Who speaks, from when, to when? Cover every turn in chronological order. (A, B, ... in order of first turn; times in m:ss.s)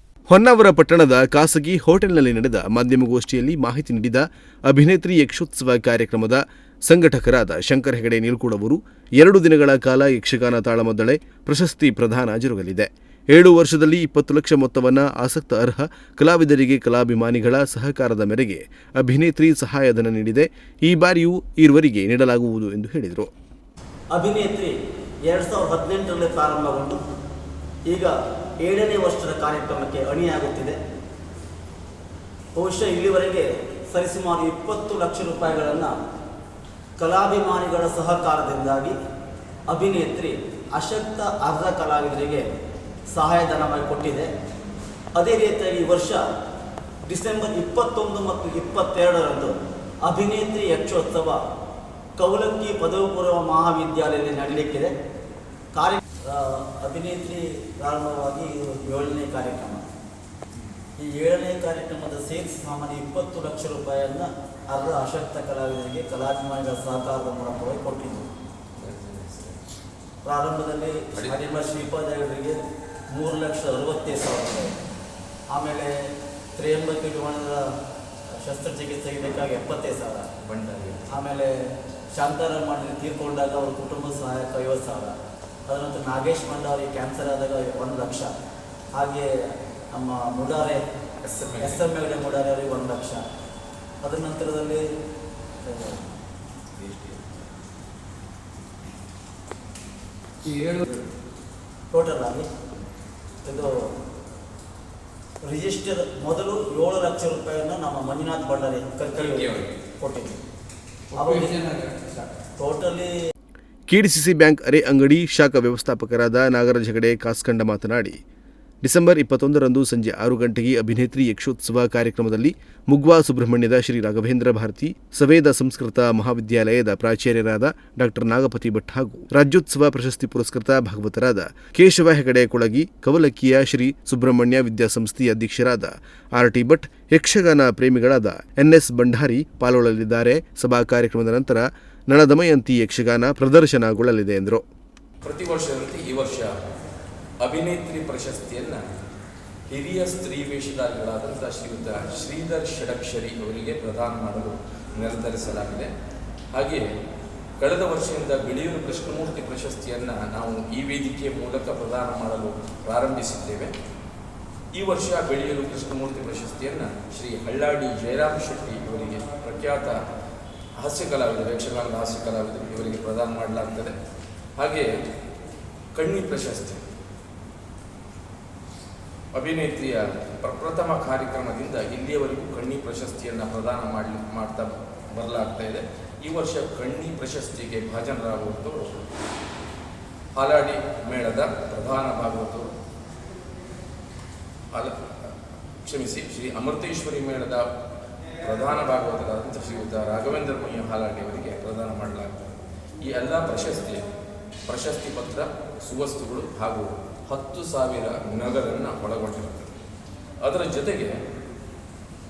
0:00.3-0:23.3 A
0:24.1-0:24.7 B
0:25.2-0:27.0 B
0:27.8-0:30.8 B
0:32.5-0:35.9 B
0:37.0-0:38.9 B
0:39.7-0:42.4 B
0:43.1-0:44.3 B
0:45.1-0:46.2 B
0:47.0-0:49.5 B
0:50.0-0:51.4 B
0:52.2-0:54.9 B
0:55.7-0:59.8 B
1:01.0-1:08.3 B
1:08.8-1:09.6 C
1:10.2-1:12.6 B
1:13.1-1:14.8 B
1:15.5-1:15.9 B
1:16.6-1:17.6 B
1:18.4-1:20.3 B
1:20.4-1:21.1 C
1:21.1-1:21.5 B
1:22.1-1:25.1 B
1:25.7-1:28.3 B
1:28.9-1:29.3 B
1:29.9-1:30.8 B
1:31.2-1:31.8 C
1:31.6-1:33.2 B
1:34.0-1:34.8 B
1:35.7-1:36.0 B
1:41.9-1:42.5 B
1:43.4-1:43.9 B
1:45.4-1:50.4 B
1:51.1-1:52.0 B
1:52.6-1:53.1 B
1:53.9-1:58.2 A
1:58.8-2:24.6 A
2:25.2-2:26.5 C
2:27.4-2:28.8 C
2:29.7-2:35.9 C
2:36.5-2:36.8 C
2:37.6-2:43.7 C
2:44.7-2:49.9 C
2:50.8-2:54.0 C
2:54.6-2:54.9 C
2:55.9-2:56.8 C
2:59.3-3:09.0 C
3:10.3-3:12.7 C
3:14.7-3:15.3 C
3:15.8-3:17.7 C
3:18.4-3:24.1 C
3:24.7-3:29.8 C
3:30.4-3:31.1 C